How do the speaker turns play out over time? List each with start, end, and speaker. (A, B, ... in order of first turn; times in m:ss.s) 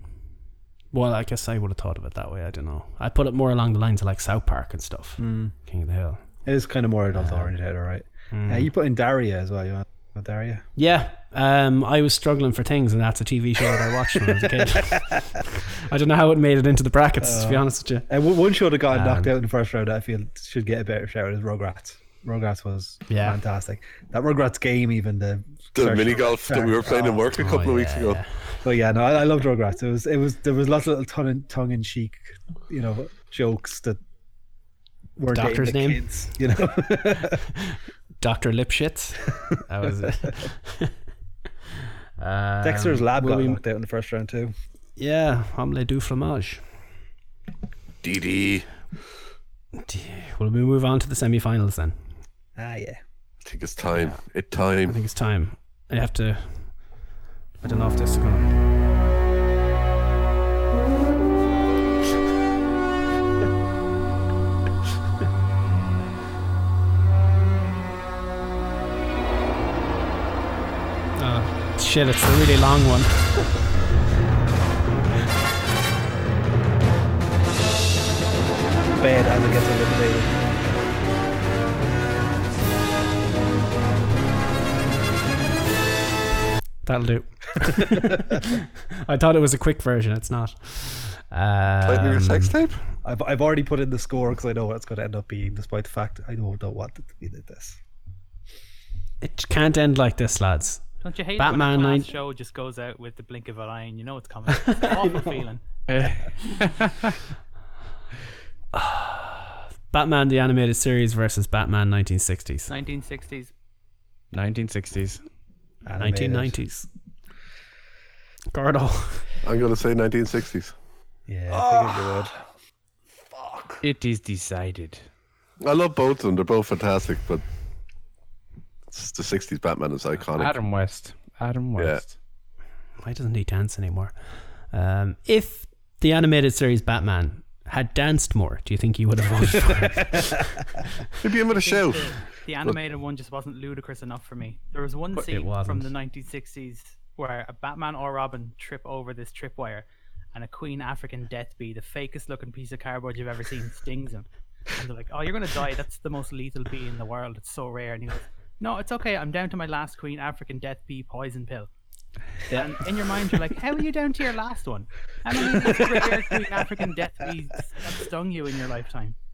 0:00.9-0:06.2 A
0:05.2-0:05.5 B
0:06.4-0:10.6 B
0:07.1-0:07.5 A
0:08.3-0:08.7 A
0:10.8-0:18.1 A
0:14.6-0:15.0 B
0:17.2-0:27.3 B
0:18.9-0:19.3 A
0:23.1-0:23.4 A
0:25.7-0:28.2 C
0:27.3-0:28.6 A
0:28.6-0:34.0 B
0:35.2-0:37.4 B
0:35.3-0:36.0 A
0:37.5-0:40.9 A
0:42.2-0:43.6 A
0:42.6-0:44.5 B
0:45.0-0:46.6 A
0:48.0-0:48.7 C
0:49.8-0:52.0 A
0:52.6-0:53.0 B
0:53.4-0:54.9 C
0:53.9-0:54.2 A
0:54.9-0:56.8 A
0:57.6-0:58.5 A
1:11.2-1:13.5 A
1:19.0-1:20.4 B
1:26.8-1:32.5 A
1:31.8-1:32.8 C
1:33.0-1:37.8 B
1:39.2-1:42.1 A
1:41.0-1:45.6 D
1:44.7-1:45.2 A
1:45.9-1:47.1 E
1:48.7-1:52.7 A
1:52.7-1:53.5 D
1:54.3-1:55.2 E
1:55.8-1:56.6 B
1:56.0-1:56.9 A
1:58.5-1:59.3 A
1:59.4-2:00.7 C
2:01.3-2:02.3 B
2:03.4-2:03.8 B
2:03.8-2:05.0 E
2:05.6-2:07.4 C
2:08.9-2:10.6 C
2:10.3-2:12.1 E
2:13.0-2:14.1 A
2:14.7-2:20.5 A
2:21.2-2:22.8 C
2:21.5-2:41.7 D
2:25.1-2:25.9 A
2:42.5-2:49.2 D
2:45.6-2:46.1 B